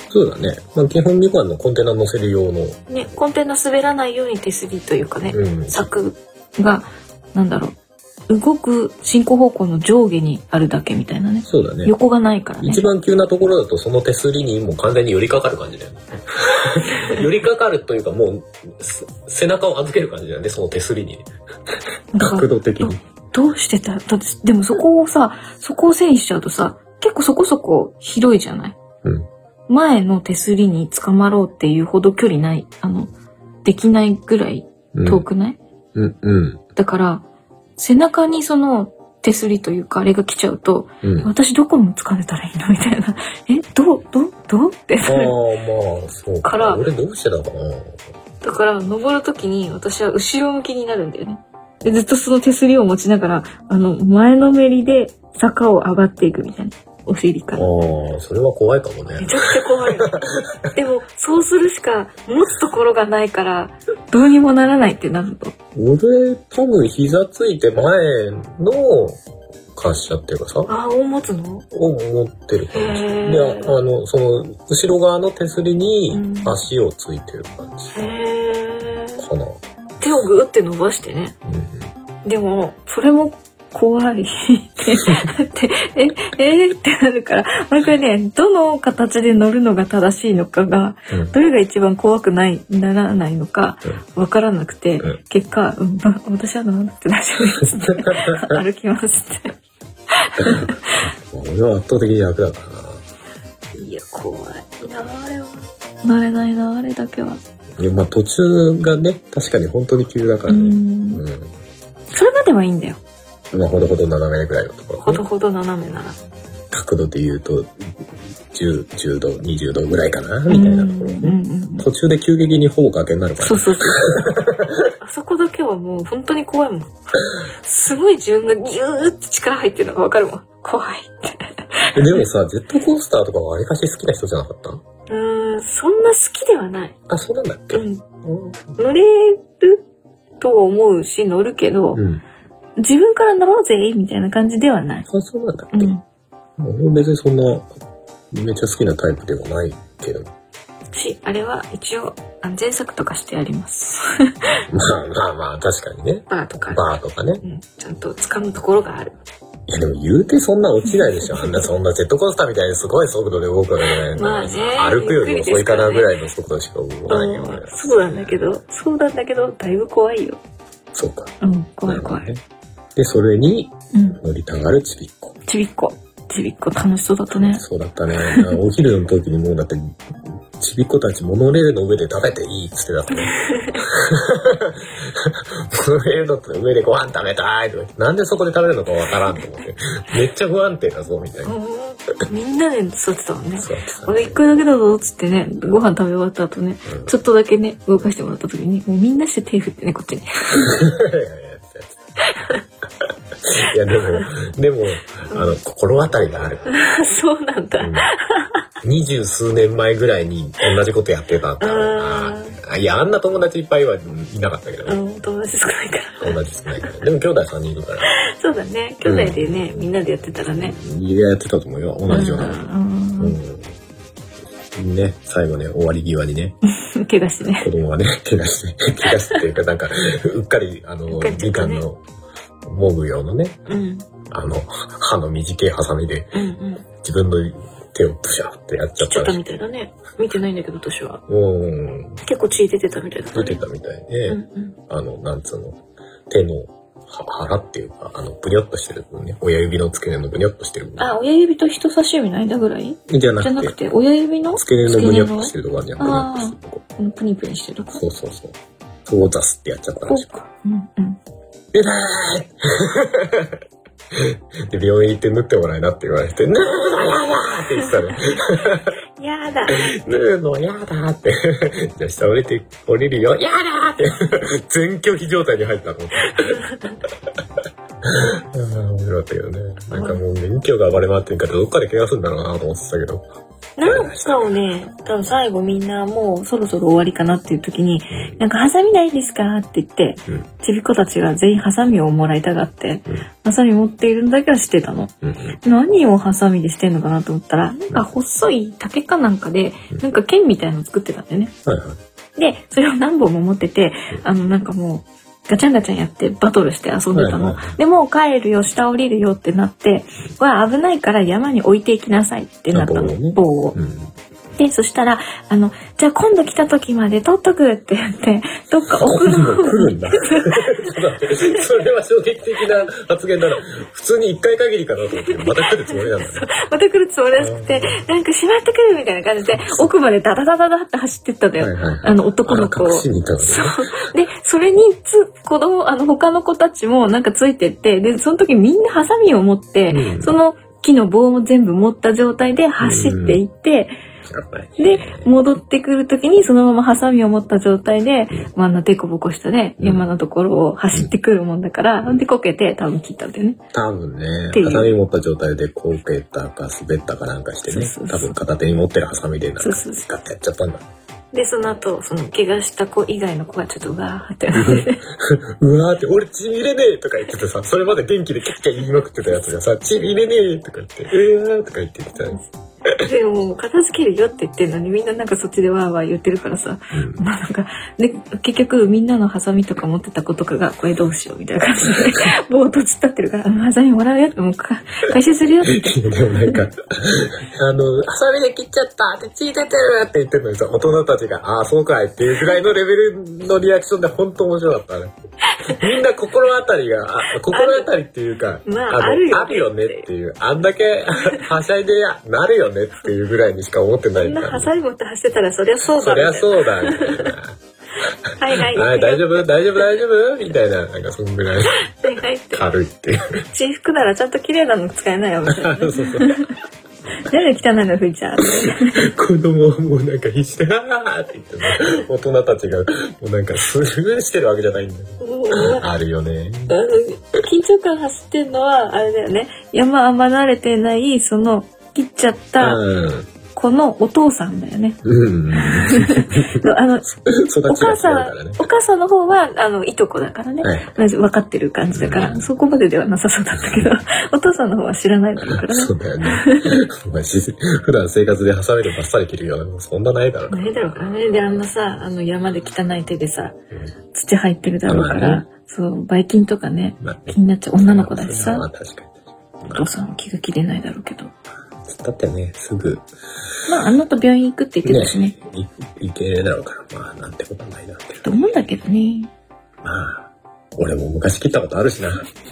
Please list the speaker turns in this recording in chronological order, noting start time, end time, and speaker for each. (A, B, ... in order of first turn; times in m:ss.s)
0:00.1-0:02.8 A
0:02.9-0:07.8 B
0:05.3-0:05.9 A
0:08.3-0:12.8 B
0:11.4-0:11.9 A
0:12.6-0:23.0 A
0:16.8-0:17.2 B
0:22.1-0:28.8 B
0:29.7-0:33.1 B
0:33.6-0:35.6 B
0:34.9-0:35.2 A
0:36.0-0:36.6 A
0:36.8-0:37.2 B
0:37.8-0:45.4 B
0:41.0-0:41.3 A
0:45.0-0:48.0 A
0:46.4-0:46.8 B
0:48.4-0:57.7 B
0:57.5-1:00.7 A
0:59.2-1:00.2 B
1:00.7-1:05.5 B
1:05.8-1:09.2 A
1:09.8-1:10.7 A
1:10.7-1:11.7 B
1:11.7-1:18.1 A
1:12.7-1:13.8 B
1:16.1-1:16.6 B
1:17.9-1:19.2 B
1:19.2-1:19.6 A
1:20.0-1:21.4 B
1:21.4-1:21.9 A
1:22.2-1:39.6 B
1:38.0-1:38.6 A
1:40.1-1:41.1 B
1:40.4-1:43.0 A
1:43.8-1:47.4 B
1:47.8-1:51.6 A
1:50.5-1:51.2 B
1:52.1-1:53.0 B
1:53.5-1:55.2 A
1:55.0-1:56.2 B
1:56.7-1:58.0 A
1:58.5-2:04.9 A
2:00.5-2:01.9 B
2:03.4-2:04.0 B
2:05.0-2:12.2 B
2:11.9-2:14.8 A
2:15.1-2:17.0 B
2:17.1-2:18.7 A
2:17.7-2:18.1 B
2:18.8-2:19.8 B
2:20.4-2:22.0 B
2:22.0-2:22.2 A
2:22.8-2:25.1 B
2:25.1-2:25.9 A
2:25.7-2:26.0 B
2:26.6-2:27.7 A
2:28.3-2:30.3 A
2:30.9-2:34.5 B
2:34.7-2:37.4 A
2:36.3-2:36.9 B
2:37.4-2:39.2 B
2:39.7-2:48.4 A
2:41.4-2:41.6 B
2:43.9-2:46.1 B
2:47.1-2:50.4 B
2:50.9-2:52.4 A
2:51.4-2:52.3 B
2:53.0-2:55.4 A
2:53.9-2:54.2 B
2:55.5-2:57.6 B
2:57.4-3:11.6 A
2:58.2-2:58.6 B
3:03.1-3:03.8 B
3:11.4-3:20.9 B
3:13.6-3:14.4 A
3:16.9-3:17.1 A
3:20.6-3:22.0 A
3:22.2-3:22.6 B
3:23.4-3:26.8 A
3:26.7-3:28.6 B
3:27.8-3:28.1 A
3:28.8-3:35.0 A
3:31.6-3:32.6 B
3:34.8-3:36.8 B
3:36.2-3:38.1 A
3:38.0-3:40.8 B
3:39.0-3:39.8 A
3:40.5-3:42.6 A
3:42.1-3:43.4 B
3:43.2-3:43.8 A
3:44.7-3:46.6 A
3:46.8-3:47.7 B
3:47.6-3:52.0 A
3:49.0-3:49.4 B
3:51.1-3:51.8 B
3:52.6-3:53.6 A
3:53.7-3:54.1 B
3:54.3-3:56.3 A
3:56.3-3:56.9 B
3:57.0-3:59.4 A
3:59.0-4:01.2 B
4:01.3-4:02.2 A
4:02.2-4:03.6 B
4:03.4-4:11.1 A
4:04.3-4:04.8 B
4:11.0-4:18.0 B
4:13.1-4:13.8 A
4:14.5-4:16.8 A
4:17.9-4:20.3 A
4:20.0-4:21.2 B
4:21.7-4:23.6 A
4:24.1-4:29.0 A
4:29.2-4:29.9 B
4:29.7-4:36.6 A
4:36.3-4:37.0 B
4:38.0-4:43.3 A
4:39.9-4:40.2 B
4:43.8-5:01.5 B
4:43.8-4:44.5 A
4:48.1-4:48.4 A
4:55.2-4:55.6 A
5:01.6-5:02.0 A
5:02.4-5:13.8 B
5:07.1-5:07.8 A
5:12.7-5:14.1 A
5:14.6-5:21.6 B
5:19.0-5:26.5 A
5:25.2-5:43.9 B
5:27.4-5:28.0 A
5:29.4-5:29.9 A
5:31.6-5:33.8 A
5:39.9-5:40.4 A
5:42.8-5:43.4 A
5:44.3-5:45.3 A
5:44.8-5:53.6 B
5:49.8-5:50.1 A
5:53.7-6:00.9 A
5:54.5-5:54.9 B
5:57.7-5:58.4 B
5:59.6-6:00.1 B
6:01.3-6:05.0 B
6:04.5-6:13.0 A
6:13.0-6:26.6 B
6:16.9-6:17.2 A
6:25.6-6:35.1 A
6:35.7-6:44.7 A
6:37.4-6:37.9 B
6:38.6-6:40.1 B
6:44.2-6:47.4 B
6:46.0-6:51.9 A
6:48.4-6:49.5 B
6:51.8-6:52.7 B
6:52.5-6:53.4 A
6:53.5-6:56.6 B
6:55.5-6:56.5 A
6:57.2-6:59.1 B
6:58.6-7:06.8 A
7:05.2-7:05.9 B
7:06.7-7:12.8 B
7:12.6-7:13.3 A
7:13.5-7:15.0 B
7:15.0-7:16.6 A
7:15.5-7:17.1 B
7:17.2-7:18.6 A
7:17.7-7:26.8 B
7:20.6-7:20.9 A
7:21.9-7:22.5 A
7:23.6-7:23.9 A
7:25.4-7:31.7 A
7:30.5-7:33.6 B
7:34.1-7:38.7 B
7:34.9-7:35.4 A
7:37.0-7:39.9 A
7:39.7-7:41.3 B
7:41.9-7:43.1 A
7:43.7-7:45.4 B
7:44.8-7:48.6 A
7:48.2-7:49.3 B
7:49.8-7:52.3 A